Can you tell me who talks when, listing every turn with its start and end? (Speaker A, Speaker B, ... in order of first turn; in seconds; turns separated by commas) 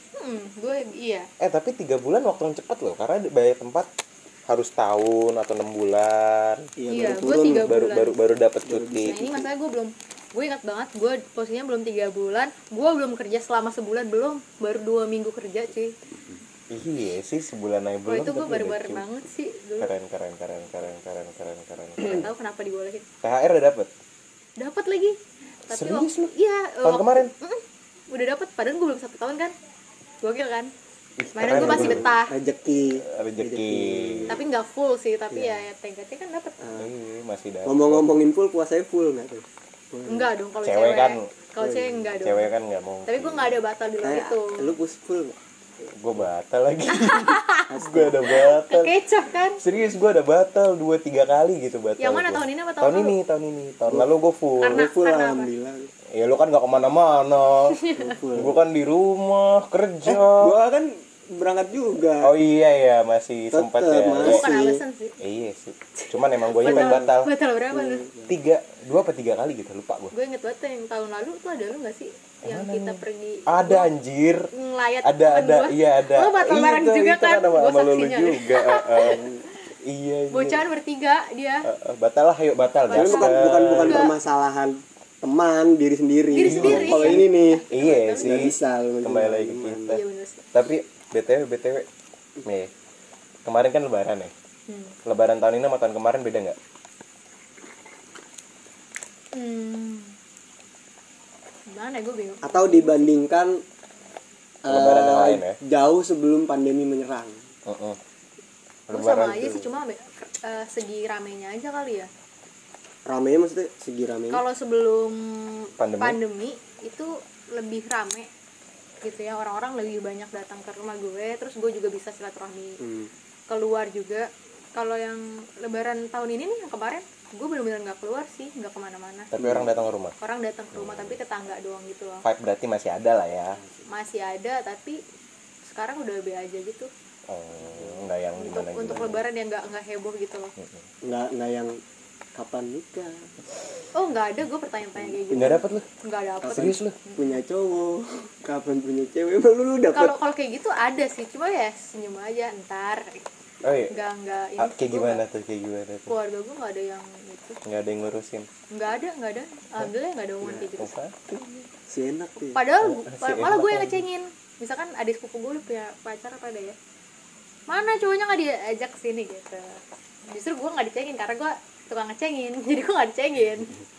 Speaker A: 0.2-1.3, Speaker B: 1.4-3.9, Speaker B: 4.5-6.7, Speaker C: 6.8-7.7, Speaker A: 6.9-8.1, Speaker B: 7.6-9.2, Speaker C: 8.6-9.5, Speaker A: 9.0-15.9, Speaker B: 16.7-19.0, Speaker A: 18.1-19.9, Speaker B: 19.8-22.3, Speaker A: 22.0-23.1, Speaker B: 23.2-23.9, Speaker A: 24.6-25.2, Speaker A: 25.7-29.5, Speaker B: 25.7-26.3, Speaker B: 26.8-27.3, Speaker A: 30.2-30.7, Speaker B: 31.2-32.1, Speaker A: 31.3-32.3, Speaker C: 31.5-34.4, Speaker B: 33.0-34.4, Speaker A: 34.3-36.6, Speaker C: 35.3-35.6, Speaker C: 36.6-36.9, Speaker B: 36.8-38.0, Speaker C: 37.6-40.3, Speaker A: 40.1-42.5, Speaker B: 40.6-41.3, Speaker C: 41.6-42.1, Speaker B: 42.2-43.6, Speaker A: 43.0-44.7, Speaker C: 44.0-45.4, Speaker B: 45.9-49.0, Speaker A: 46.9-47.7, Speaker C: 47.7-48.3, Speaker A: 48.3-49.6, Speaker B: 49.6-54.8, Speaker A: 52.0-53.1, Speaker A: 54.6-55.5, Speaker C: 54.6-55.9, Speaker B: 56.1-60.5, Speaker A: 57.7-58.1, Speaker C: 58.0-58.6, Speaker C: 60.0-62.3, Speaker B: 62.2-64.5, Speaker C: 63.5-64.8, Speaker A: 64.2-65.2, Speaker B: 65.2-67.3, Speaker A: 66.0-68.0, Speaker C: 66.6-67.1, Speaker C: 67.7-68.3, Speaker B: 68.3-70.1, Speaker A: 70.1-73.9, Speaker B: 72.4-74.5, Speaker A: 74.5-79.2, Speaker B: 75.0-79.2, Speaker C: 79.0-79.4, Speaker B: 79.8-80.6, Speaker A: 80.3-81.7, Speaker B: 81.6-84.1, Speaker A: 82.9-84.1, Speaker C: 82.9-87.6, Speaker A: 86.3-88.5, Speaker B: 86.4-90.0, Speaker C: 88.2-90.0, Speaker A: 89.9-90.4, Speaker B: 90.5-91.9, Speaker B: 92.4-92.7, Speaker B: 93.4-94.3, Speaker A: 94.7-94.9, Speaker B: 95.0-96.6, Speaker A: 99.3-100.1, Speaker A: 101.7-103.1, Speaker C: 102.4-103.6, Speaker C: 104.6-107.4, Speaker B: 104.7-105.6, Speaker B: 107.7-108.0, Speaker B: 108.9-109.7, Speaker A: 108.9-112.1, Speaker C: 113.0-114.4, Speaker A: 114.3-118.3, Speaker B: 115.8-116.2, Speaker A: 119.0-122.8, Speaker C: 122.8-123.1, Speaker A: 123.5-129.3, Speaker B: 129.3-130.2, Speaker C: 129.4-129.8, Speaker A: 130.2-132.2, Speaker B: 130.7-131.2, Speaker B: 132.2-133.6, Speaker A: 133.9-135.0, Speaker A: 135.6-136.9, Speaker B: 137.3-139.2, Speaker C: 137.6-138.0, Speaker A: 138.4-140.5, Speaker B: 140.6-140.8, Speaker C: 141.0-141.8, Speaker C: 142.3-143.2, Speaker A: 143.9-147.4, Speaker C: 145.1-145.5, Speaker B: 145.3-145.9, Speaker B: 146.4-146.9, Speaker C: 146.5-150.1, Speaker A: 149.9-153.2, Speaker B: 153.6-153.9, Speaker A: 153.9-155.2, Speaker B: 154.6-156.1, Speaker A: 156.1-157.6, Speaker B: 157.6-158.5, Speaker A: 158.7-160.9, Speaker B: 160.7-161.2, Speaker C: 161.8-162.6, Speaker A: 162.5-166.8, Speaker B: 162.8-164.0, Speaker A: 167.7-173.7